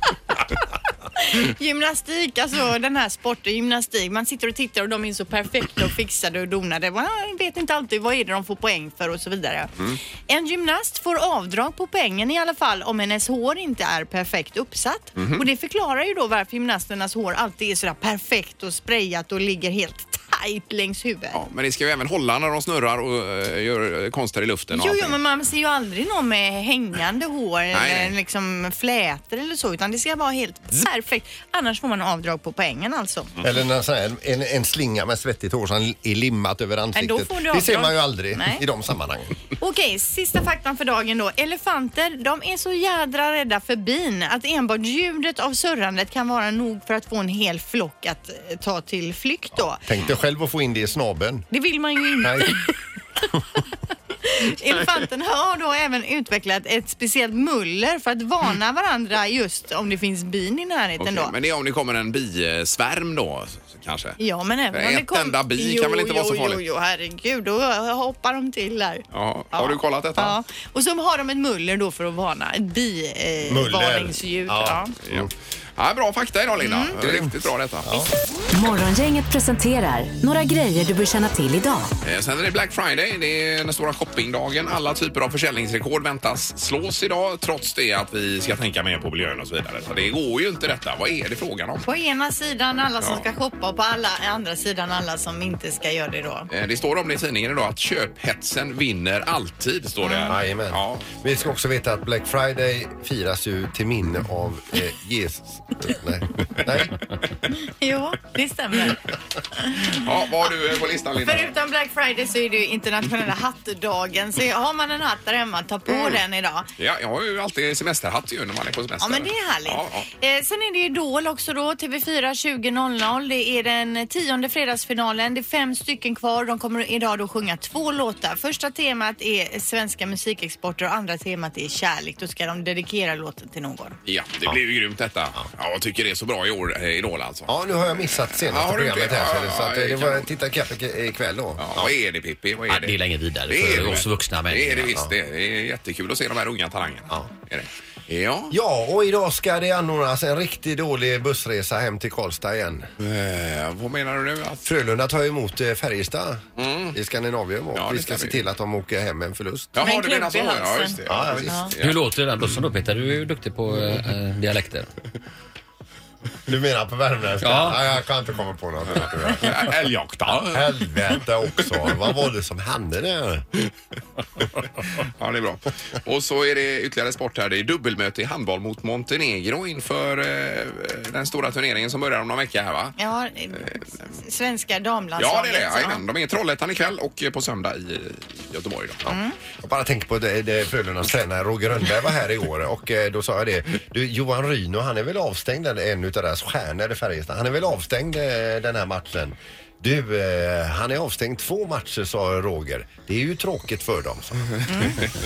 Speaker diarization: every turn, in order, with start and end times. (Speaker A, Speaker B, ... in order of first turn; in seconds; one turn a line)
Speaker A: 1.2-9.7
Speaker A: 10.3-21.4
Speaker B: 15.2-15.4
Speaker B: 21.3-25.2
Speaker A: 24.7-33.3
Speaker B: 27.7-28.1
Speaker C: 33.4-39.3
Speaker A: 36.9-38.6
Speaker A: 39.6-49.8
Speaker C: 49.8-51.5
Speaker A: 51.5-52.7
Speaker C: 52.2-52.6
Speaker A: 54.2-61.3
Speaker B: 61.0-64.2
Speaker A: 64.2-74.9
Speaker B: 64.7-66.6
Speaker B: 69.1-70.3
Speaker C: 73.5-75.3
Speaker B: 75.1-78.0
Speaker A: 76.6-77.0
Speaker C: 77.0-78.1
Speaker D: 78.5-81.9
Speaker B: 82.0-91.8
Speaker A: 91.8-96.5
Speaker B: 96.5-101.5
Speaker A: 100.0-100.3
Speaker C: 100.3-107.1
Speaker A: 107.5-109.0
Speaker A: 109.5-110.0
Speaker B: 109.9-111.5
Speaker A: 111.2-116.7
Speaker B: 115.9-116.2
Speaker B: 116.8-120.1
Speaker A: 119.0-133.9
Speaker B: 134.1-137.5
Speaker C: 137.5-141.9
Speaker B: 138.0-140.3
Speaker B: 141.6-148.5
Speaker E: 142.7-144.9
Speaker C: 148.5-152.9
Speaker B: 153.0-154.7
Speaker C: 154.6-156.4
Speaker B: 156.6-157.0
Speaker C: 156.9-159.8
Speaker B: 157.7-158.4
Speaker B: 159.8-162.0
Speaker A: 159.8-161.7
Speaker C: 161.1-161.7
Speaker E: 161.8-164.9
Speaker C: 166.5-169.6
Speaker E: 167.4-167.8
Speaker B: 169.0-171.2
Speaker C: 170.4-173.4
Speaker B: 175.0-182.9
Speaker A: 183.0-186.0
Speaker B: 183.6-184.1
Speaker B: 185.2-189.0
Speaker A: 189.1-189.4
Speaker C: 189.1-204.6
Speaker A: 204.7-205.0